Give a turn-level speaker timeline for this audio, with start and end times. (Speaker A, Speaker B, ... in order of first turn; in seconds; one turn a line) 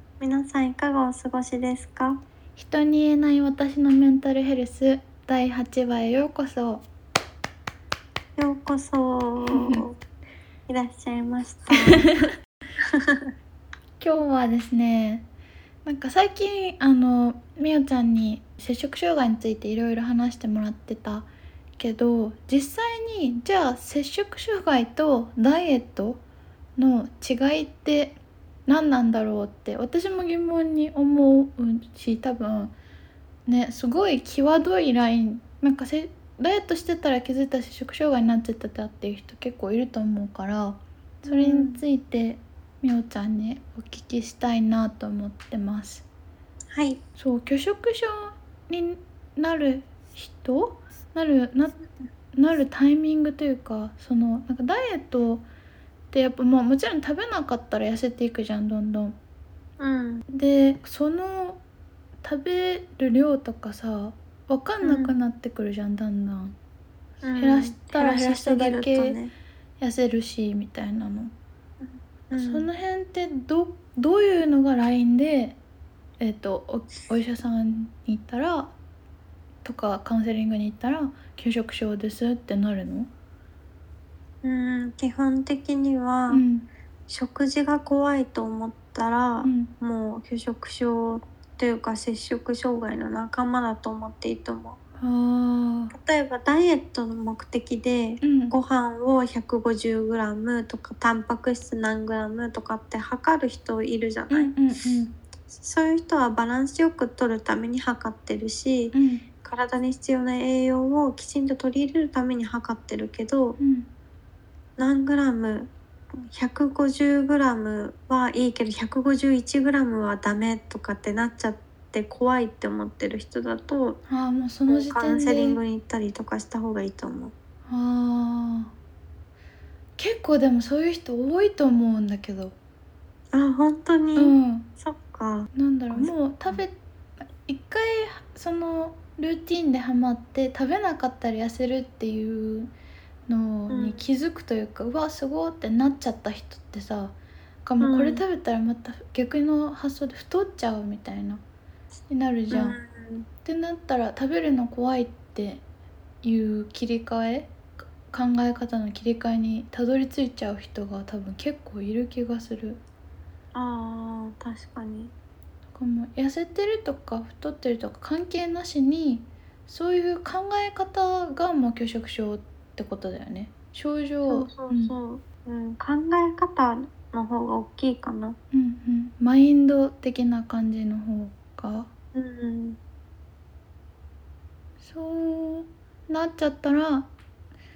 Speaker A: 0.2-2.2
Speaker B: 2.6-6.8
Speaker A: 8.4-10.0
Speaker B: 9.5-9.8
Speaker A: 10.7-12.1
Speaker B: 11.9-12.3
Speaker A: 12.9-13.3
Speaker B: 14.0-15.3
Speaker B: 15.8-26.2
Speaker B: 26.8-32.7
Speaker B: 33.5-46.1
Speaker A: 41.3-41.8
Speaker A: 46.7-47.0
Speaker B: 47.2-51.8
Speaker B: 52.4-55.5
Speaker B: 56.1-59.2
Speaker A: 59.8-60.2
Speaker B: 60.3-61.6
Speaker B: 62.2-66.5
Speaker A: 64.8-65.2
Speaker A: 67.2-69.3
Speaker B: 67.4-69.2
Speaker B: 69.8-71.3
Speaker A: 71.8-72.7
Speaker B: 72.3-75.6
Speaker B: 76.2-78.7
Speaker B: 79.6-83.1
Speaker A: 84.4-86.4
Speaker B: 86.3-86.7
Speaker A: 87.1-94.8
Speaker B: 89.4-89.7
Speaker B: 95.0-95.9
Speaker A: 95.9-104.5
Speaker B: 98.2-98.6
Speaker B: 104.3-105.2
Speaker A: 105.5-113.6
Speaker B: 108.9-109.2
Speaker B: 113.6-113.9
Speaker A: 114.8-115.7
Speaker A: 116.3-124.0
Speaker B: 124.1-125.6
Speaker A: 124.7-127.3
Speaker B: 127.7-128.7
Speaker B: 130.0-132.6
Speaker A: 133.3-136.6
Speaker B: 134.2-134.7
Speaker B: 135.6-136.8
Speaker B: 137.4-142.7
Speaker B: 143.3-151.4
Speaker A: 143.7-144.0
Speaker A: 147.8-148.2
Speaker B: 152.1-152.8
Speaker A: 152.5-153.3
Speaker B: 153.4-155.7
Speaker B: 156.2-162.8
Speaker A: 163.5-165.1
Speaker B: 165.7-174.9
Speaker A: 174.3-178.4
Speaker B: 178.5-181.9
Speaker A: 182.2-182.8
Speaker B: 184.8-187.1